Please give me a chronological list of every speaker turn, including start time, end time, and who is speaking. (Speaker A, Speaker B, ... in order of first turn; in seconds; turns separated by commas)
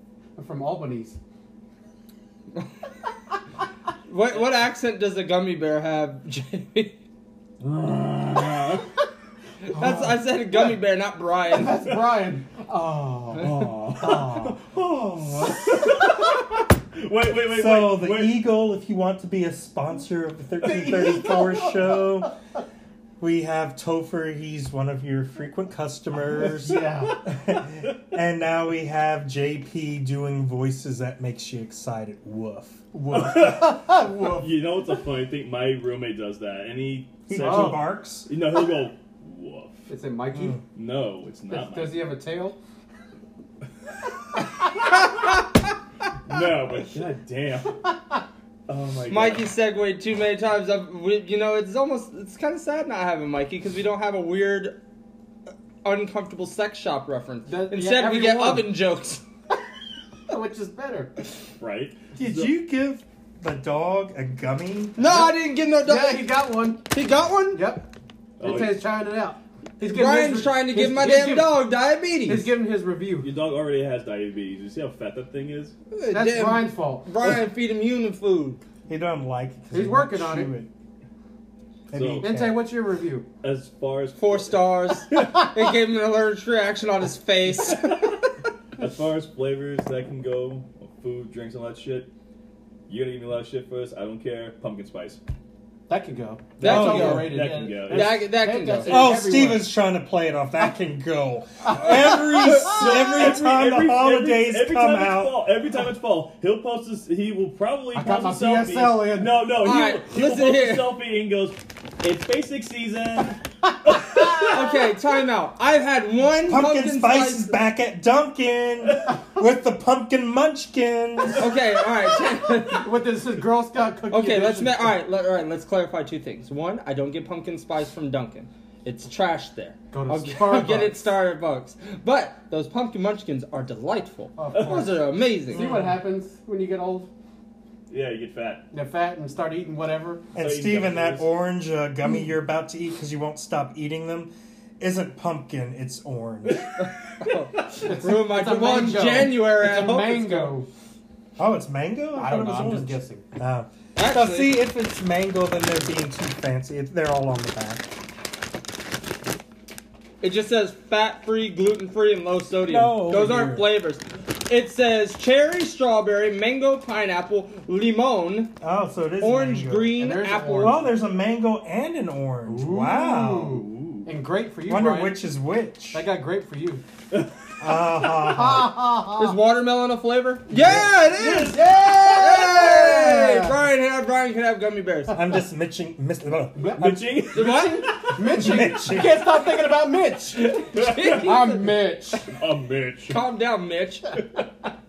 Speaker A: 0.3-1.2, Speaker B: 4.1-7.0, Speaker C: 7.6-8.8, Speaker B: 9.7-11.8, Speaker A: 9.7-10.3, Speaker A: 11.5-14.6, Speaker C: 13.4-18.4, Speaker D: 17.5-22.3, Speaker A: 20.6-22.3, Speaker D: 23.2-32.8, Speaker A: 26.4-27.2, Speaker A: 32.9-34.5, Speaker C: 33.1-39.9, Speaker D: 37.3-38.3, Speaker A: 37.4-37.8, Speaker A: 39.9-40.6, Speaker C: 40.7-42.1, Speaker A: 41.5-42.6, Speaker C: 46.2-47.8, Speaker C: 48.7-49.5, Speaker B: 49.1-54.8, Speaker B: 55.8-59.2, Speaker A: 57.5-58.7, Speaker A: 60.3-61.1, Speaker C: 61.6-62.5, Speaker D: 62.1-65.0, Speaker B: 65.0-66.3, Speaker A: 65.8-66.8, Speaker B: 66.9-67.7, Speaker A: 67.5-67.9, Speaker C: 68.4-68.8, Speaker A: 68.4-71.6, Speaker B: 69.8-72.5, Speaker A: 72.3-73.3, Speaker C: 73.2-75.7, Speaker B: 75.9-78.6, Speaker A: 76.1-77.1, Speaker D: 78.9-80.7, Speaker A: 79.7-80.5, Speaker D: 81.9-82.7, Speaker C: 81.9-82.3, Speaker A: 82.2-83.3, Speaker C: 83.4-85.4, Speaker B: 84.2-88.3, Speaker C: 88.8-92.1, Speaker C: 92.9-95.2, Speaker A: 95.9-99.7, Speaker B: 96.6-99.0, Speaker D: 96.6-97.4, Speaker C: 96.7-98.3, Speaker D: 98.9-105.4, Speaker A: 101.9-102.2, Speaker C: 102.2-114.6, Speaker A: 107.9-109.5, Speaker B: 109.6-110.9, Speaker B: 114.5-117.5, Speaker D: 116.5-121.5, Speaker B: 121.4-122.9, Speaker A: 122.7-124.9, Speaker B: 124.1-135.7, Speaker A: 129.9-131.0, Speaker A: 134.3-137.1, Speaker C: 134.5-134.9, Speaker D: 135.5-136.0, Speaker C: 137.9-138.7, Speaker A: 138.7-140.2, Speaker D: 140.3-146.7, Speaker C: 140.4-141.3, Speaker B: 146.8-150.6, Speaker A: 147.8-150.7, Speaker D: 151.4-157.9, Speaker A: 152.1-153.2, Speaker B: 153.9-154.6, Speaker B: 160.2-168.5, Speaker D: 162.7-163.7, Speaker D: 168.6-170.0, Speaker B: 169.2-170.9, Speaker A: 170.0-170.9, Speaker D: 170.6-173.6, Speaker A: 172.5-175.2, Speaker C: 173.5-174.1, Speaker D: 174.7-176.0, Speaker A: 175.9-176.8, Speaker D: 177.6-178.8, Speaker A: 178.1-179.4, Speaker B: 179.2-185.2, Speaker A: 180.5-183.6, Speaker C: 181.2-181.5, Speaker D: 185.1-187.2, Speaker A: 186.5-187.4, Speaker C: 186.8-188.7, Speaker B: 187.3-188.0, Speaker A: 188.1-192.3, Speaker D: 188.2-189.4, Speaker B: 190.4-192.2, Speaker C: 190.5-191.4, Speaker C: 192.3-193.2, Speaker B: 193.1-194.2